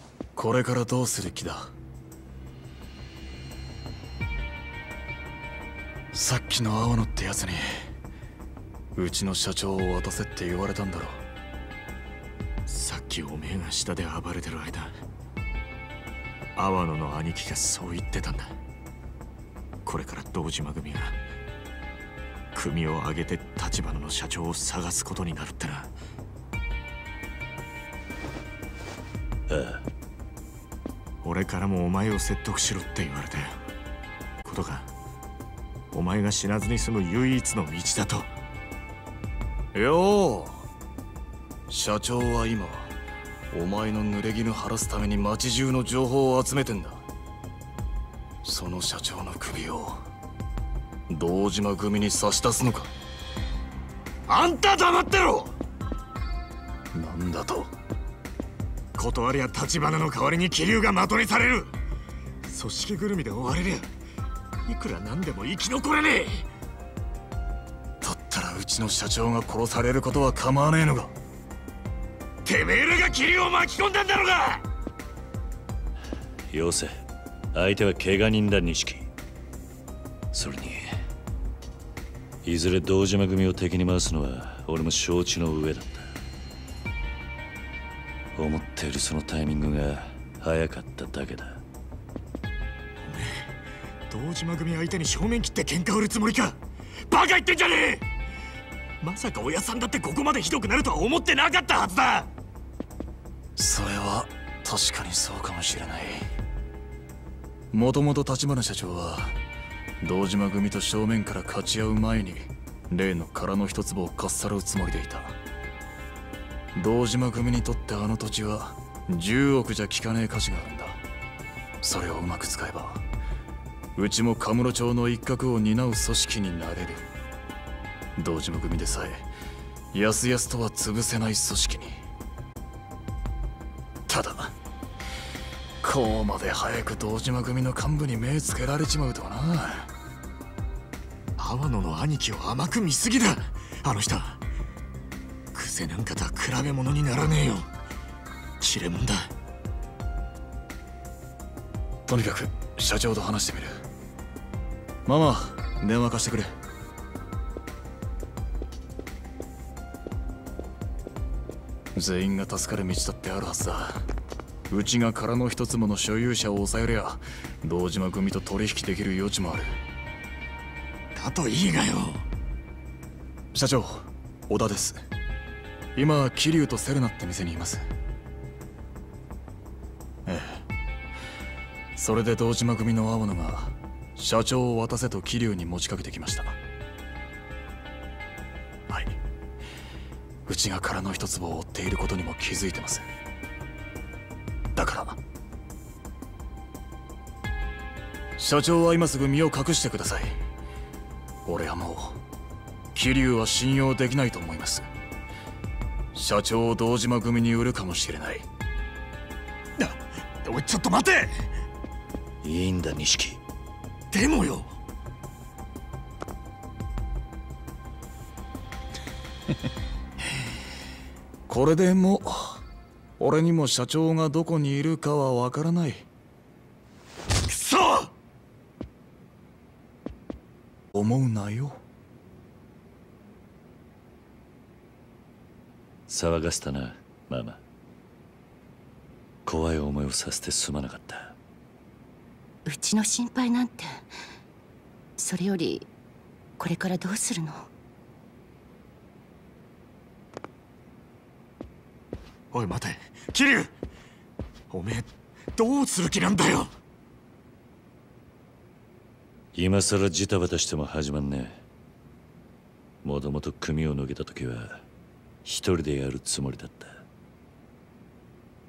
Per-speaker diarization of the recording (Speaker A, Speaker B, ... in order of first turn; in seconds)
Speaker A: 0.3-1.7, 6.1-7.9, 8.9-11.2, 39.7-40.6, 41.7-42.9, 43.5-47.0, 48.4-50.0, 51.1-52.9, 56.9-57.7, 68.0-71.1, 103.5-106.3, 107.7-109.4, 110.0-115.4, 116.7-121.0, 121.8-123.0, 123.9-127.1, 128.2-129.3, 129.9-132.0, 134.1-134.5, 135.8-139.9, 152.1-153.8, 155.1-156.5, 161.9-164.0, 164.7-169.8, 173.5-175.0, 175.9-177.8, 180.2-180.6, 181.9-186.6, 188.9-189.2, 190.4-193.0, 194.8-195.2, 198.4-200.4, 201.4-202.2, 202.9-204.9, 206.1-208.4, 221.5-222.6, 223.2-226.1, 230.9-231.8
Speaker B: 12.7-14.9, 16.6-18.6, 19.8-21.2, 22.5-25.9, 31.2-33.6, 34.4-34.9, 35.9-38.3, 54.3-55.5, 59.0-61.7, 62.4-63.9, 64.6-66.5, 72.4-74.6, 93.0-93.6, 94.1-98.1, 99.0-102.3, 141.4-144.4, 145.5-147.7, 148.6-149.3, 171.1-172.2, 209.8-211.5, 214.1-214.7, 227.5-228.1, 252.5-253.7, 254.7-256.7
Speaker C: 29.5-29.8, 76.5-77.0, 77.5-79.1, 80.3-80.9, 82.4-86.1, 88.3-91.6, 212.4-213.4, 236.1-237.6, 239.4-241.3, 259.5-261.6, 263.0-264.8, 265.4-267.0
Speaker D: 242.7-244.1, 245.2-245.9, 246.6-247.7